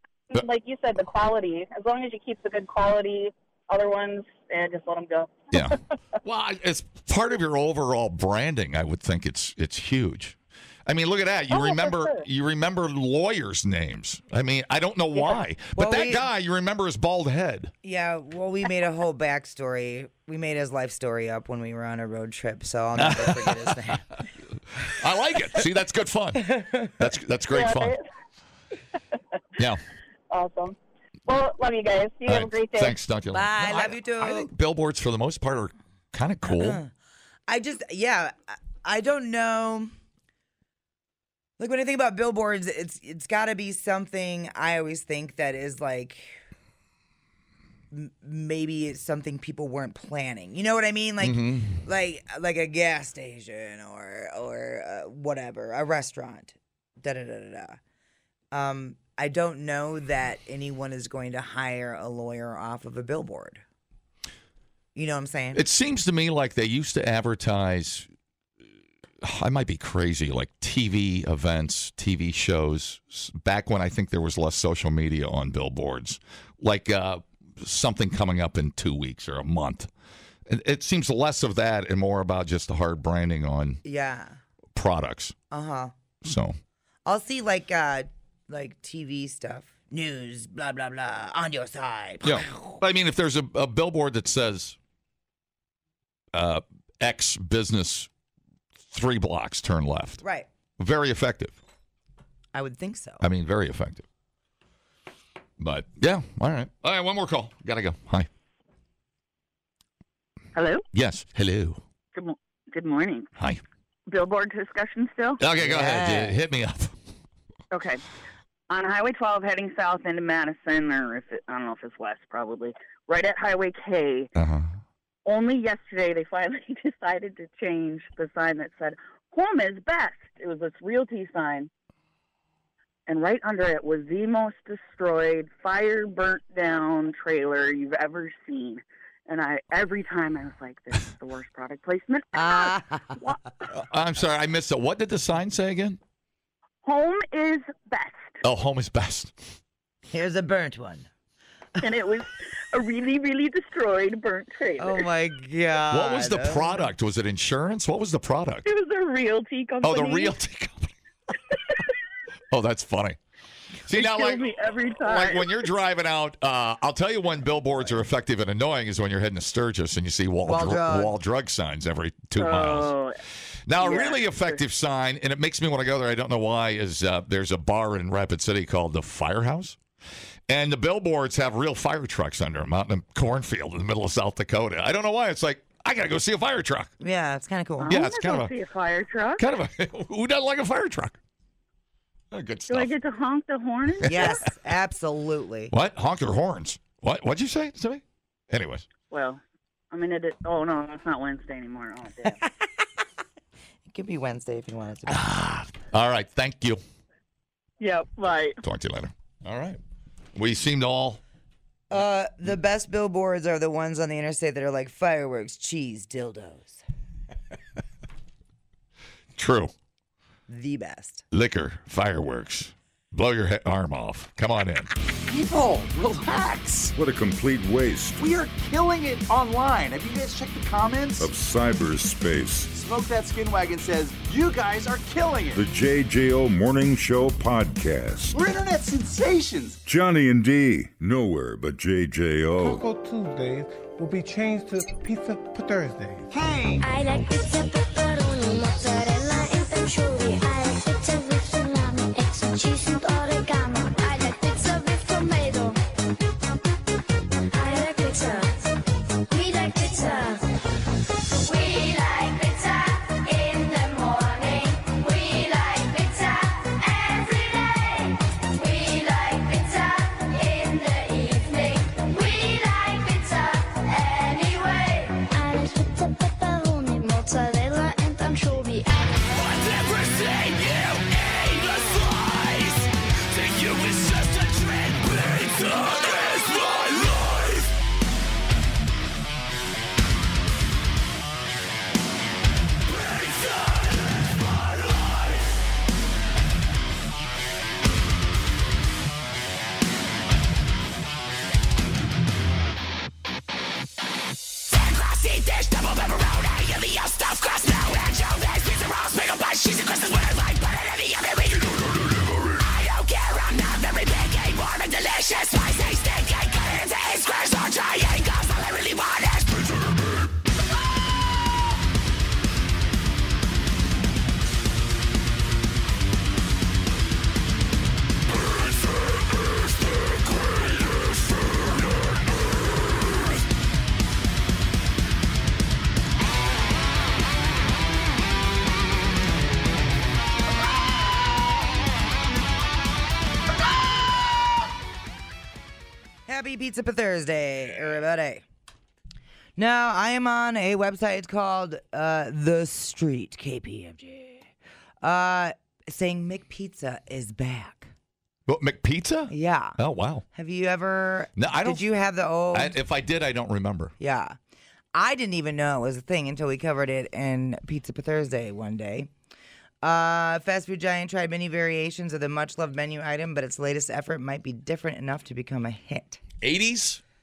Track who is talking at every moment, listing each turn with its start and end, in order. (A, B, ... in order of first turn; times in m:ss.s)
0:00.3-0:05.8 A
0:05.5-0:17.7 B
0:11.5-0:12.2 A
0:15.7-0:16.2 C
0:17.8-0:24.0 C
0:23.0-0:24.0 B
0:24.8-0:28.0 B
0:26.5-0:26.9 C
0:27.5-0:28.0 A
0:29.6-0:29.8 B
0:30.3-0:33.0 A
0:32.3-0:36.8 B
0:33.3-0:34.5 C
0:36.5-0:36.9 C
0:37.5-0:39.9 C
0:41.6-0:46.4 C
0:47.9-0:57.8 C
0:51.2-0:51.8 B
0:58.5-1:03.6 C
1:05.0-1:05.6 C
1:05.5-1:08.1 B
1:09.2-1:19.9 B
1:20.5-1:23.8 B
1:23.8-1:24.4 C
1:24.8-1:25.4 B
1:25.5-1:25.9 C
1:26.2-1:26.6 B
1:27.1-1:32.8 C
1:32.2-1:34.8 B
1:36.3-1:38.1 B
1:38.9-1:40.2 B
1:40.8-1:41.6 B
1:42.5-1:43.2 C
1:43.2-1:44.0 B
1:45.6-1:48.3 B
1:50.6-1:50.8 D
1:50.9-1:51.8 B
1:52.2-1:53.3 D
1:53.4-1:53.6 B
1:54.1-1:55.4 D
1:55.4-1:57.0 B
1:55.6-1:56.3 C
1:57.7-1:58.0 D
1:58.7-2:04.3 D
2:04.4-2:04.8 B
2:05.3-2:11.7 D
2:13.1-2:23.4 D
2:22.3-2:23.2 C
2:23.8-2:26.0 B
2:26.8-2:28.4 D
2:28.4-2:29.4 B
2:30.1-2:31.1 C
2:31.8-2:35.1 D
2:34.8-2:36.8 C
2:35.9-2:38.7 B
2:38.6-2:40.4 D
2:39.8-2:40.9 B
2:42.5-2:43.2 B
2:43.9-2:53.0 B
2:43.9-2:45.6 D
2:50.4-2:51.2 C
2:52.4-2:53.2 D
2:53.7-2:59.8 B
2:53.8-2:54.6 D
3:00.5-3:06.9 B
3:07.0-3:08.0 C
3:07.8-3:09.4 D
3:07.9-3:08.5 B
3:09.4-3:11.2 B
3:12.3-3:12.9 B
3:12.7-3:14.5 D
3:14.0-3:14.4 B
3:14.1-3:15.7 C
3:15.7-3:18.9 B
3:19.1-3:22.4 D
3:23.9-3:25.4 C
3:25.1-3:26.8 B
3:27.8-3:28.6 D
3:28.6-3:29.8 B
3:30.4-3:31.2 B
3:31.9-3:36.8 C
3:39.4-3:39.7 B
3:40.5-3:41.2 C
3:41.3-3:44.9 B
3:45.3-3:47.0 E
3:47.0-3:48.2 F
3:48.2-3:51.3 E
3:51.2-3:52.7 F
3:52.7-3:55.6 E
3:55.5-3:58.4 F
3:58.3-3:59.8 E
3:59.8-4:02.9 F
4:02.6-4:06.3 G
4:06.3-4:06.8 E
4:06.8-4:15.8 H
4:17.5-4:18.7 H
4:19.3-4:20.4 H
4:21.4-4:47.7 H
5:04.7-5:19.8 H
5:46.3-5:48.4 C
5:49.6-5:54.5 C
5:55.0-5:57.9 C
5:58.5-6:00.2 B
5:59.3-5:59.8 C
6:00.3-6:02.8 C
6:01.4-6:01.8 B
6:02.5-6:04.0 B
6:04.0-6:04.4 C
6:04.9-6:09.1 C
6:09.8-6:16.2 C
6:16.4-6:17.0 B